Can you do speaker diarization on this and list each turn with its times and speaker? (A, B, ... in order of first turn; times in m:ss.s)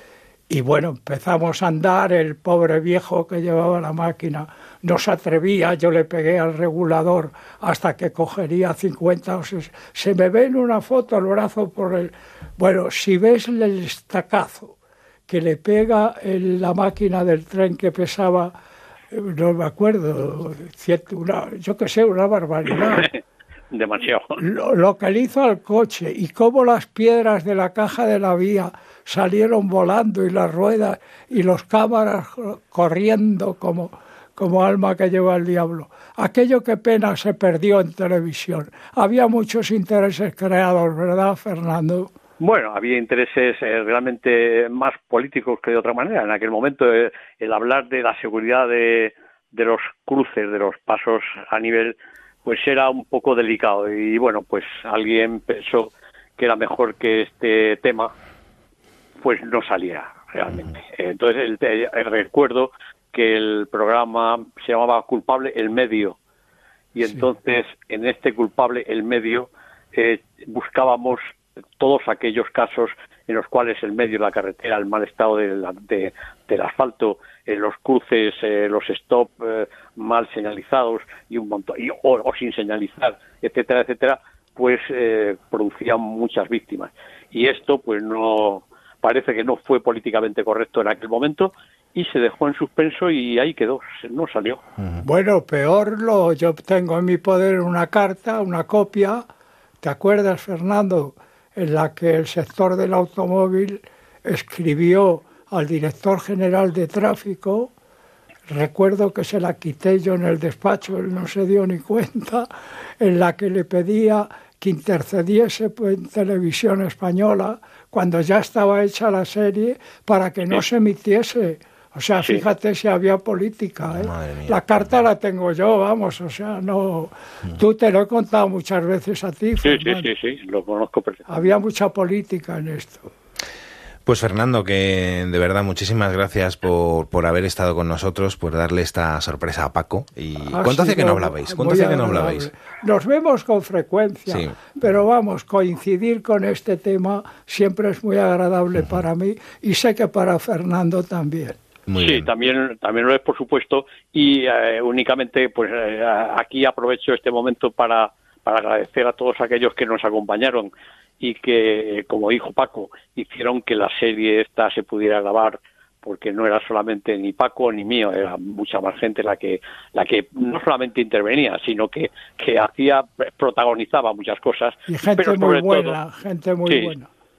0:00.5-0:14.7 A
0:15.3-0:18.5 A
0:19.1-0:23.1 A
0:23.7-0:24.4 B
0:24.4-0:42.1 A
0:42.4-0:58.1 B
0:59.2-1:06.2 B
1:06.9-1:11.2 B
1:11.8-1:34.6 B
1:35.0-1:39.2 A
1:39.8-1:47.7 A
1:48.5-1:52.5 A
1:53.0-2:10.1 A
2:04.0-2:04.6 C
2:09.6-2:11.2 B
2:11.3-2:13.1 A
2:14.0-2:22.5 C
2:20.4-2:31.6 A
2:24.3-2:24.7 C
2:31.9-2:32.3 C
2:32.0-2:56.0 B
2:54.9-2:57.1 A